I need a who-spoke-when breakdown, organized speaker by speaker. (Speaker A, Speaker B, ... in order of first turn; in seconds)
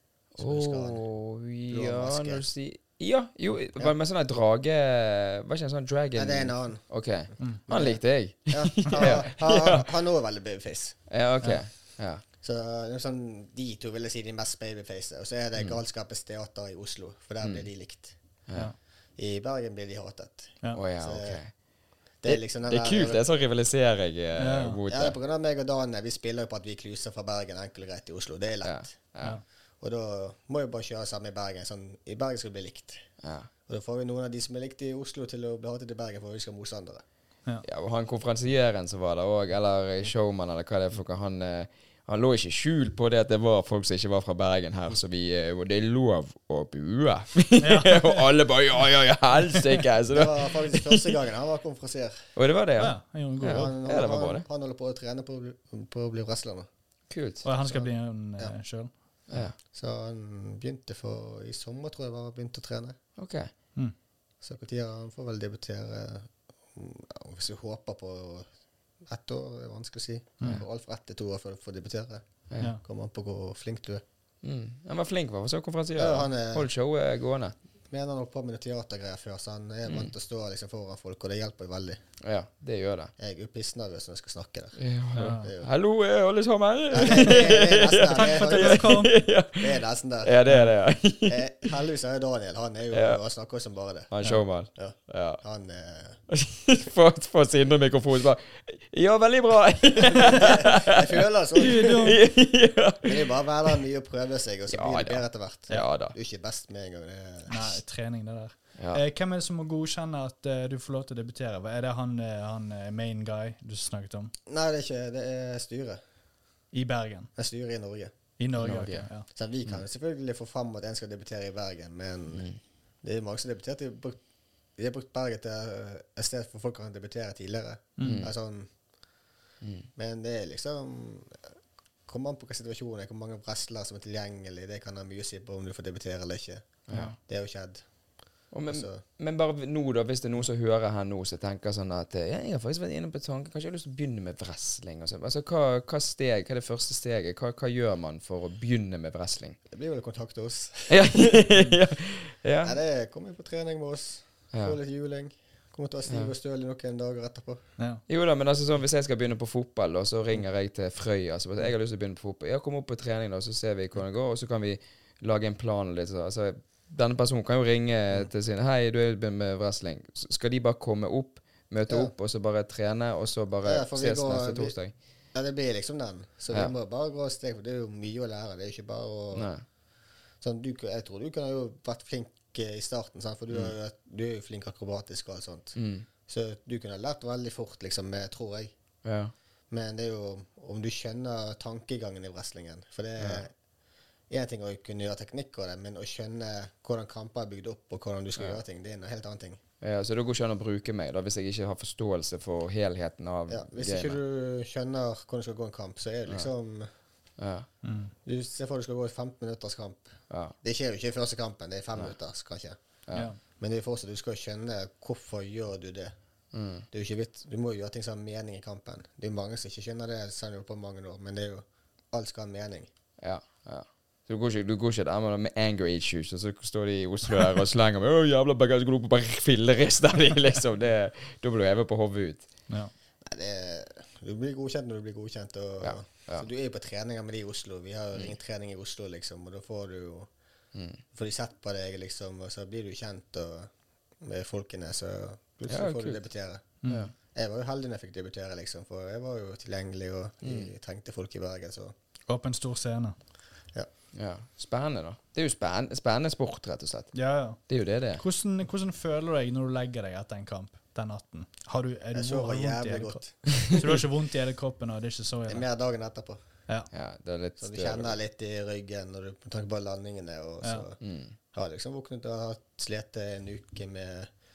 Speaker A: 0.4-1.0, 1.7-2.5, 6.2-6.8, 7.7-11.0, 12.4-18.2, 19.2-21.4, 22.2-23.2, 24.9-28.9, 29.8-33.0, 33.7-37.0, 50.1-52.3, 53.4-56.7, 57.6-58.5, 59.7-63.0, 64.4-68.5, 69.1-72.2, 72.8-74.0, 76.0-76.7, 77.9-82.0, 83.2-85.7, 86.9-89.1, 89.6-90.4, 91.3-94.1, 94.8-96.2, 100.0-102.2, 103.0-107.7, 114.5-116.0, 117.4-118.1, 119.3-122.5, 123.0-124.2, 124.8-128.7, 130.0-131.5, 132.1-137.8, 138.7-139.0, 149.7-151.5, 152.6-157.6, 171.9-172.1, 173.6-174.8, 175.3-179.5, 180.4-185.8, 186.3-188.7, 189.7-193.5, 194.3-199.6, 203.5-206.9, 208.2-212.8, 213.6-216.1, 216.9-222.9, 233.2-240.3, 241.1-243.7, 244.2-246.7, 247.3-251.9, 262.1-264.0, 265.5-266.4, 267.6-271.0, 271.5-274.3
Speaker B: 0.4-9.9, 11.1-12.2, 17.4-17.7, 18.5-18.7, 20.7-21.5, 22.2-25.2, 28.6-29.4, 33.2-33.5, 37.6-51.1, 52.4-54.5, 57.1-57.5, 59.3-59.6, 63.2-63.5, 74.4-77.5, 82.2-83.1, 84.8-91.7, 92.9-93.2, 94.1-95.4, 96.3-101.2, 101.8-103.8, 104.7-106.2, 118.6-119.1, 122.3-122.6, 128.0-128.3, 129.6-129.9, 136.9-137.2, 138.5-149.6, 150.9-152.8, 158.1-174.9, 179.3-179.6, 185.8-186.1, 189.0-189.3, 193.2-193.4, 199.8-204.2, 207.4-207.7, 210.3-210.6, 213.1-213.3, 216.5-216.9, 223.2-232.5, 235.8-236.5, 240.8-241.0, 245.7-246.2, 246.9-247.1, 250.4-250.7, 254.1-257.1, 257.7-258.2, 266.9-268.2, 271.0-271.4
Speaker C: 7.4-7.6, 24.4-24.8, 47.6-48.3, 52.8-53.7, 57.4-58.9, 85.2-85.5, 88.1-89.2, 101.6-102.2, 107.5-114.3, 116.7-117.3, 118.4-119.3, 128.0-128.3, 157.8-158.0, 207.8-208.1, 246.8-247.1, 252.3-253.2, 257.1-265.6